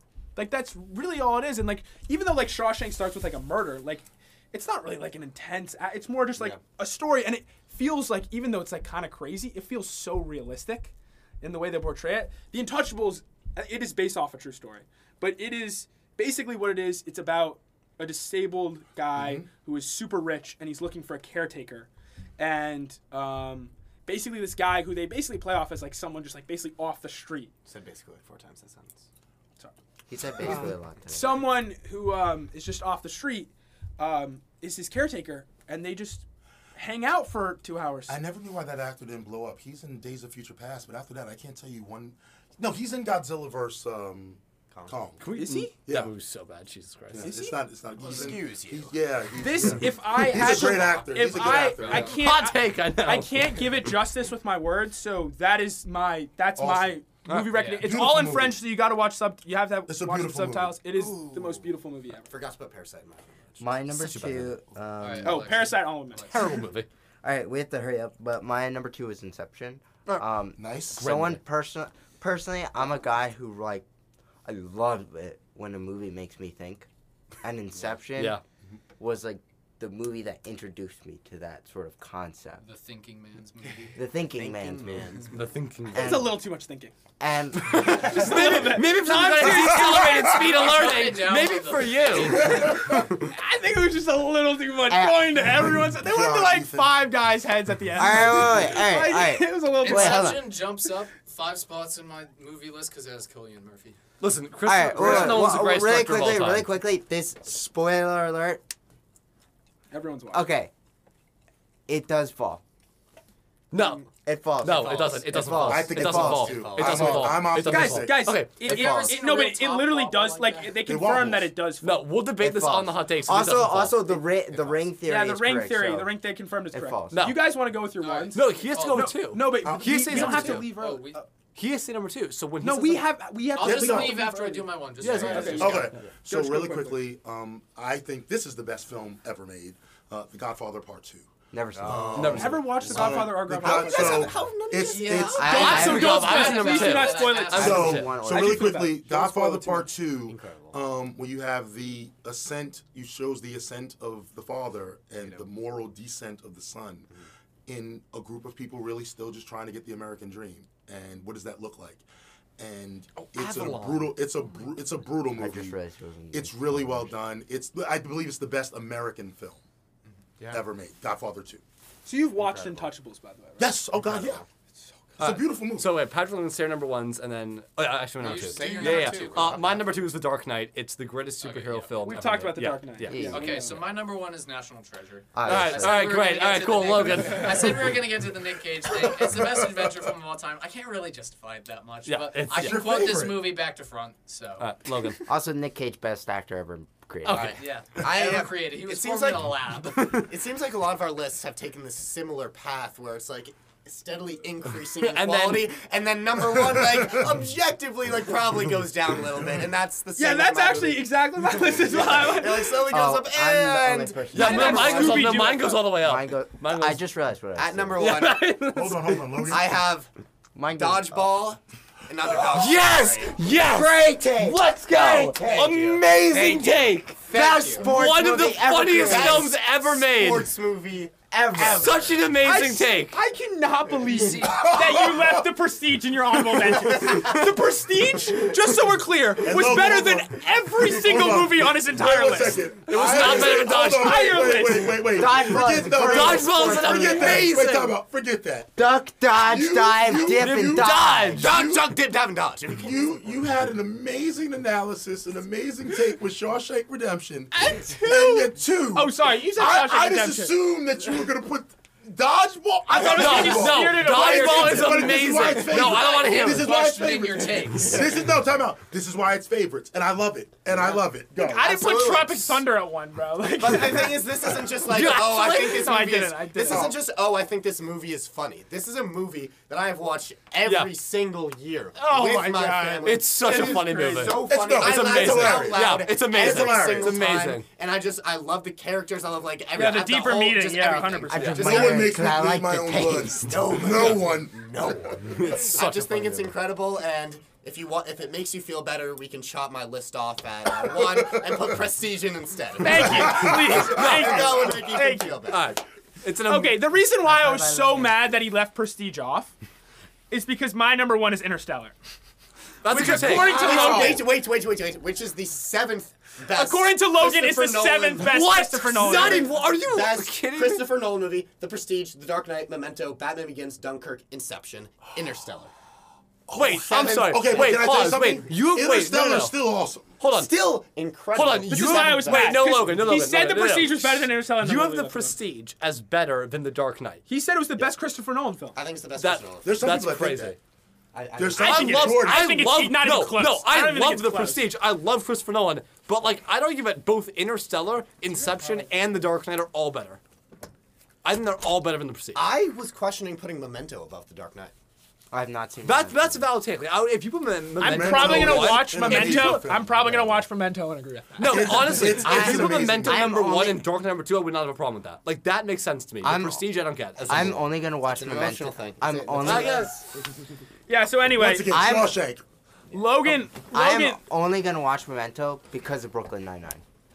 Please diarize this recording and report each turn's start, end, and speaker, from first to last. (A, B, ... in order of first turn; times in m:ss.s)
0:00.4-0:27.5 A
0:19.1-0:19.5 B
0:27.7-0:29.1 C
0:30.1-0:31.5 D
0:30.4-0:38.2 A
0:38.1-0:45.2 B
0:44.7-0:45.0 C
0:45.2-0:47.3 E
0:45.3-0:45.7 A
0:45.8-0:46.1 B
0:47.1-0:52.2 B
0:47.2-0:47.6 A
0:48.0-0:49.0 C
0:49.4-1:02.3 A
0:50.5-0:52.1 F
0:51.9-0:53.9 E
0:56.6-0:57.2 B
0:57.3-0:57.6 E
0:57.5-0:58.0 F
0:57.8-0:58.7 B
0:59.9-1:00.8 B
1:00.9-1:03.9 C
1:03.6-1:05.5 D
1:04.0-1:04.6 E
1:05.0-1:06.5 F
1:05.2-1:06.4 A
1:06.2-1:06.9 E
1:07.2-1:13.8 D
1:10.6-1:11.1 B
1:10.9-1:11.4 E
1:14.4-1:16.9 D
1:17.4-1:18.4 D
1:18.2-1:18.4 E
1:19.0-1:22.6 D
1:22.6-1:24.0 F
1:24.0-1:25.2 D
1:24.3-1:25.4 C
1:25.3-1:26.3 E
1:25.9-1:26.4 D
1:26.0-1:26.9 A
1:27.2-1:28.4 D
1:27.7-1:33.0 E
1:27.7-1:30.7 A
1:29.5-1:30.5 B
1:30.4-1:32.7 F
1:32.4-1:40.5 A
1:32.4-1:32.9 B
1:34.9-1:35.5 D
1:35.4-1:37.2 B
1:38.0-1:40.5 D
1:39.7-1:44.0 F
1:44.2-1:46.7 E
1:44.6-1:48.6 D
1:49.9-1:50.5 A
1:50.3-1:50.7 D
1:51.9-1:52.6 D
1:53.7-1:54.1 E
1:54.2-1:56.7 D
1:54.6-1:58.9 E
1:54.7-1:57.5 C
1:55.5-1:58.4 B
1:57.6-2:02.1 A
1:58.6-1:59.2 D
1:58.6-2:00.7 F
2:00.8-2:01.6 B
2:01.8-2:04.0 E
2:02.4-2:06.1 D
2:04.0-2:04.9 C
2:05.0-2:11.2 A
2:06.7-2:07.2 D
2:07.1-2:07.5 E
2:08.0-2:09.2 F
2:08.3-2:10.7 E
2:09.6-2:10.6 B
2:10.1-2:11.2 F
2:11.6-2:13.1 E
2:12.6-2:17.1 A
2:13.6-2:15.9 F
2:13.6-2:14.3 B
2:15.0-2:16.0 E
2:15.6-2:25.8 B
2:21.5-2:22.5 D
2:21.7-2:25.7 C
2:22.2-2:22.7 E
2:22.3-2:24.3 A
2:24.8-2:28.0 F
2:25.4-2:26.3 D
2:25.4-2:28.1 E
2:25.5-2:29.9 A
2:27.5-2:28.8 D
2:27.6-2:37.1 B
2:30.2-2:30.8 C
2:35.2-2:35.5 C
2:37.7-2:42.0 B
2:42.6-2:45.8 B
2:43.2-2:44.1 E
2:45.3-2:47.1 D
2:46.3-2:49.6 B
2:50.5-2:51.6 B
2:52.0-2:53.7 A
2:52.4-2:52.7 C
2:53.6-2:54.4 B
2:54.1-2:54.4 C
2:55.2-2:56.0 B
2:55.2-3:03.4 E
2:58.2-2:59.8 C
2:58.2-2:59.6 F
3:01.4-3:02.0 F
3:02.0-3:03.9 A
3:03.1-3:03.6 D
3:03.3-3:14.7 F
3:05.3-3:06.0 D
3:05.4-3:08.0 E
3:12.1-3:12.8 E
3:12.5-3:13.6 B
3:14.6-3:15.2 E
3:15.3-3:17.6 D
3:17.2-3:17.6 E
3:17.3-3:19.5 C
3:17.6-3:20.2 F
3:19.9-3:20.3 E
3:20.1-3:35.5 C
3:25.0-3:25.7 E
3:26.7-3:27.1 B
3:30.2-3:32.8 A
3:32.8-3:35.3 D
3:34.3-3:37.0 E
3:34.4-3:35.8 A
3:36.0-3:38.2 D
3:37.6-3:38.7 C
3:38.0-3:39.6 E
3:38.7-3:39.7 B
3:39.5-3:40.1 C
3:40.6-3:41.5 D
3:40.7-3:43.4 C
3:42.4-3:47.2 E
3:42.6-3:49.6 D
3:45.4-3:47.9 C
3:47.8-3:50.5 E
3:48.9-3:52.3 C
3:51.4-3:51.9 D
3:51.6-3:53.2 E
3:52.4-4:05.7 A
3:54.1-3:54.7 F
3:54.4-3:55.6 B
3:59.4-4:08.8 B
4:02.9-4:04.4 E
4:05.1-4:07.6 D
4:06.0-4:07.9 E
4:08.8-4:11.5 D
4:09.3-4:11.9 B
4:10.4-4:11.5 E
4:11.4-4:13.3 C
4:12.7-4:31.8 B
4:17.5-4:20.5 A
4:22.9-4:25.7 A
4:23.0-4:26.7 E
4:25.8-4:28.1 F
4:31.4-4:34.3 A
4:31.6-4:32.6 C
4:33.6-4:52.1 C
4:34.9-4:35.9 E
4:35.1-4:36.9 A
4:36.6-4:37.0 B
4:40.6-4:40.9 E
4:42.0-4:44.4 A
4:42.2-4:42.6 B
4:43.0-4:47.7 E
4:44.3-4:47.4 B
4:49.7-4:51.9 A
4:51.3-4:53.6 D
4:51.4-4:51.7 E
4:51.6-4:55.3 B
4:53.4-5:05.7 C
4:53.9-4:54.2 E
4:55.2-4:56.6 E
5:00.8-5:01.7 B
5:02.8-5:05.4 A
5:02.9-5:04.7 B
5:03.9-5:04.4 E
5:05.5-5:06.9 E
5:06.4-5:09.6 A
5:07.2-5:08.2 D
5:10.3-5:12.0 A
5:12.8-5:14.1 E
5:12.9-5:14.2 A
5:13.1-5:18.4 C
5:13.2-5:14.3 B
5:16.5-5:19.5 A
5:18.2-5:20.9 E
5:19.0-5:25.7 C
5:26.5-5:30.1 B
5:26.6-5:29.6 E
5:26.8-5:28.4 C
5:30.2-5:30.5 E
5:30.3-5:33.0 C
5:31.3-5:37.2 E
5:31.7-5:35.4 A
5:37.3-5:38.8 A
5:38.7-5:39.9 C
5:39.2-5:40.6 E
5:39.6-5:40.6 B
5:41.1-5:41.8 C
5:41.4-5:42.7 B
5:41.6-5:50.2 E
5:41.6-5:44.6 A
5:51.2-5:52.5 E
5:52.4-5:54.7 C
5:55.3-5:56.5 D
5:55.8-5:59.6 E
5:57.8-6:02.1 A
5:57.8-6:00.5 B
6:01.4-6:07.6 E
6:01.4-6:03.3 B
6:02.2-6:03.9 D
6:06.2-6:06.7 D
6:07.2-6:09.9 D
6:07.2-6:10.1 C
6:09.4-6:10.0 E
6:10.9-6:11.8 A
6:11.3-6:12.4 B
6:11.7-6:12.2 D
6:12.9-6:14.2 A
6:13.6-6:16.8 D